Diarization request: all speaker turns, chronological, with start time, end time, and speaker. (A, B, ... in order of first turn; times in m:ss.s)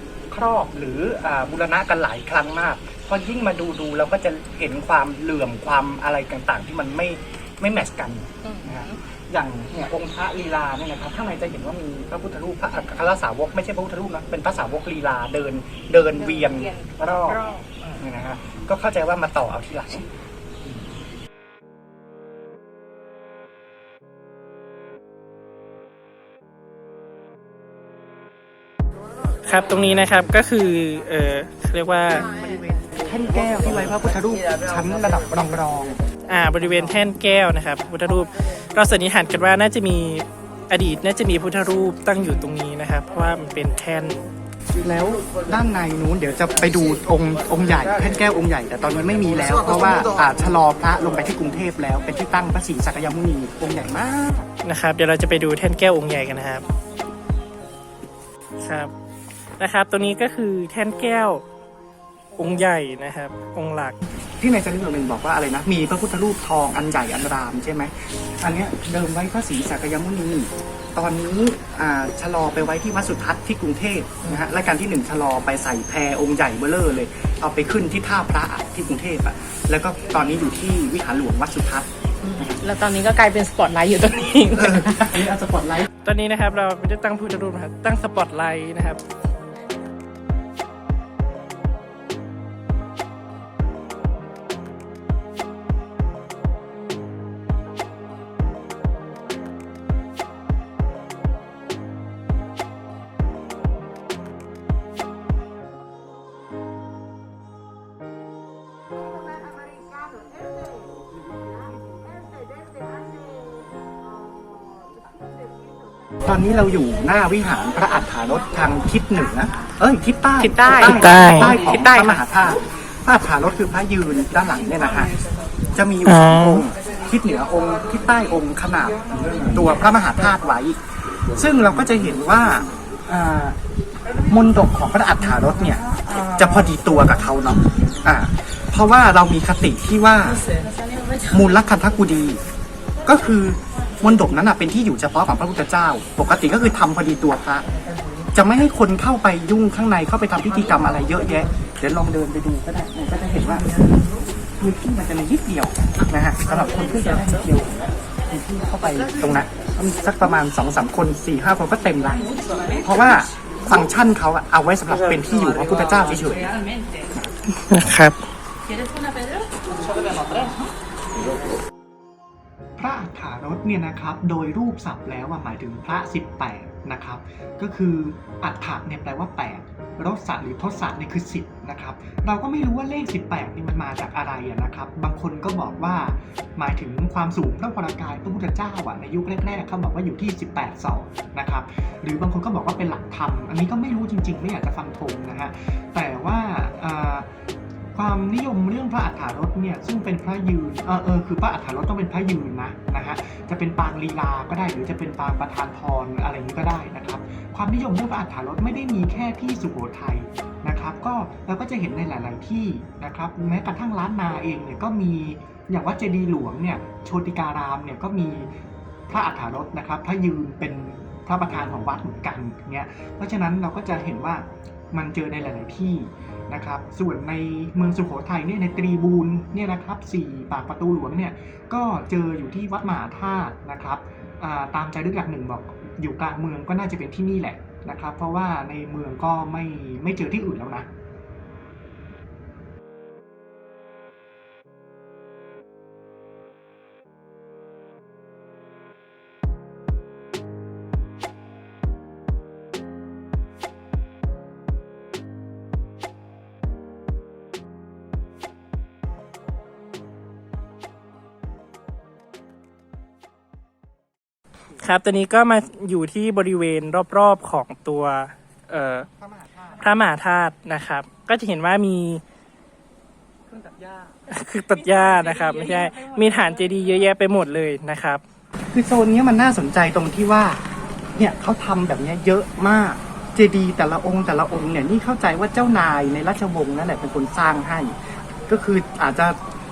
0:00.3-0:17.5 A
0:08.4-0:09.0 B
0:16.1-0:18.0 B
0:18.0-0:20.1 A
0:29.4-0:32.3 C
0:32.2-0:36.0 A
0:36.3-0:44.3 C
0:44.8-0:54.5 A
0:54.6-0:56.6 C
0:58.6-0:58.9 C
0:59.6-1:01.4 C
1:02.4-1:04.0 C
1:04.4-1:22.6 A
1:22.2-1:25.2 B
1:24.5-1:25.9 A
1:26.0-1:29.0 C
1:56.2-2:05.1 A
2:00.4-2:02.2 B
2:00.8-2:01.6 C
2:05.7-2:13.6 A
2:06.0-2:06.6 C
2:14.3-2:20.4 A
2:21.2-2:22.4 A
2:23.0-2:27.7 A
2:28.3-2:33.7 A
2:34.6-2:46.5 A
2:47.5-2:48.2 C
2:50.1-2:50.5 B
2:52.8-3:17.3 D
3:17.9-3:38.5 D
3:39.1-4:00.9 D
4:24.8-4:29.1 C
4:29.2-4:29.9 A
4:29.8-4:32.2 C
4:33.5-4:34.2 A
4:34.3-4:38.2 C
4:34.8-4:36.5 A
4:35.0-4:35.9 B
4:38.7-4:40.6 A
4:41.2-4:48.0 A
4:48.5-4:49.4 A